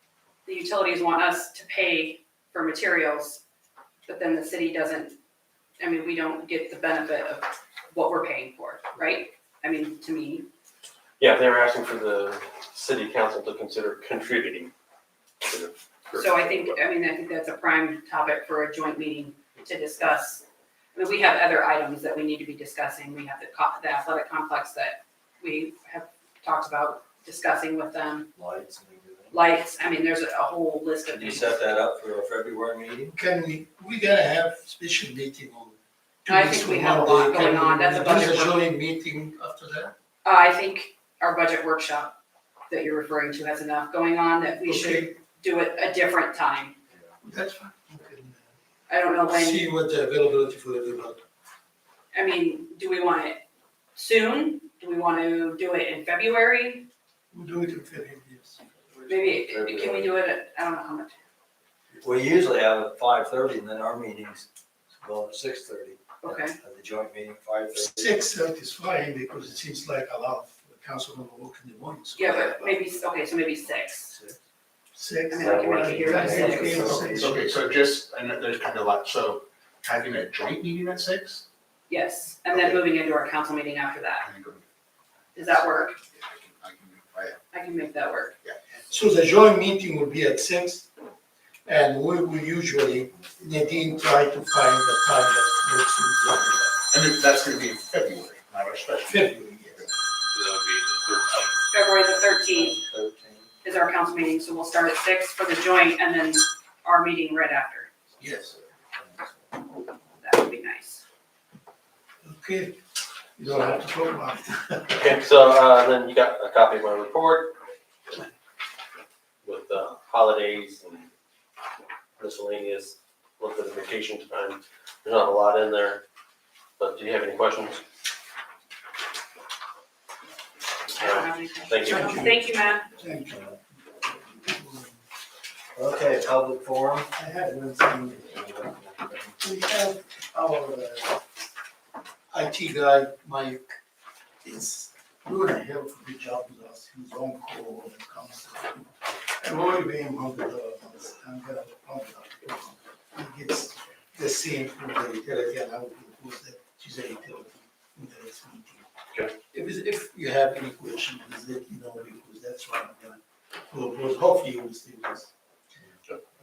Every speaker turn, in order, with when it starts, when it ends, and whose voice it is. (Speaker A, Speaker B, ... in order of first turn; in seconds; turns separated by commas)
Speaker A: 0.5-3.4, Speaker A: 4.0-5.2, Speaker A: 5.8-10.5, Speaker B: 11.2-14.7, Speaker B: 15.4-16.8, Speaker A: 16.1-28.3, Speaker C: 28.3-29.4, Speaker A: 29.3-31.5, Speaker C: 31.1-33.2, Speaker D: 33.1-39.9, Speaker A: 36.3-38.6, Speaker A: 40.2-42.2, Speaker A: 42.7-46.8, Speaker D: 44.6-45.1, Speaker D: 47.2-48.5, Speaker A: 48.9-49.7, Speaker D: 49.2-51.2, Speaker A: 52.1-53.4, Speaker A: 54.0-56.9, Speaker D: 57.3-59.1, Speaker A: 59.1-61.1, Speaker C: 59.2-60.1, Speaker C: 62.0-68.1, Speaker A: 66.2-66.5, Speaker D: 67.7-72.8, Speaker A: 72.2-74.2, Speaker D: 74.9-77.4, Speaker A: 75.3-77.0, Speaker C: 75.3-77.4, Speaker E: 77.1-81.5, Speaker A: 81.9-84.3, Speaker E: 82.5-82.8, Speaker E: 84.2-84.6, Speaker A: 85.3-86.0, Speaker E: 85.4-87.4, Speaker A: 87.5-88.3, Speaker D: 88.9-90.9, Speaker D: 91.7-96.7, Speaker C: 93.1-93.8, Speaker E: 96.9-99.3, Speaker D: 99.0-99.9, Speaker B: 100.3-101.5, Speaker A: 101.7-102.8, Speaker C: 102.5-103.5, Speaker A: 103.6-107.9, Speaker C: 108.2-109.4, Speaker A: 110.2-111.0, Speaker D: 112.2-112.8, Speaker D: 113.3-115.3, Speaker B: 115.0-118.3, Speaker B: 119.4-121.1, Speaker B: 122.2-126.0, Speaker B: 126.8-127.8, Speaker A: 130.9-132.9, Speaker B: 130.9-132.2, Speaker D: 131.8-135.0, Speaker C: 135.7-137.1, Speaker D: 137.1-138.4, Speaker C: 138.3-139.3, Speaker D: 139.4-141.2, Speaker D: 142.3-143.8, Speaker D: 144.4-158.9, Speaker D: 159.5-165.3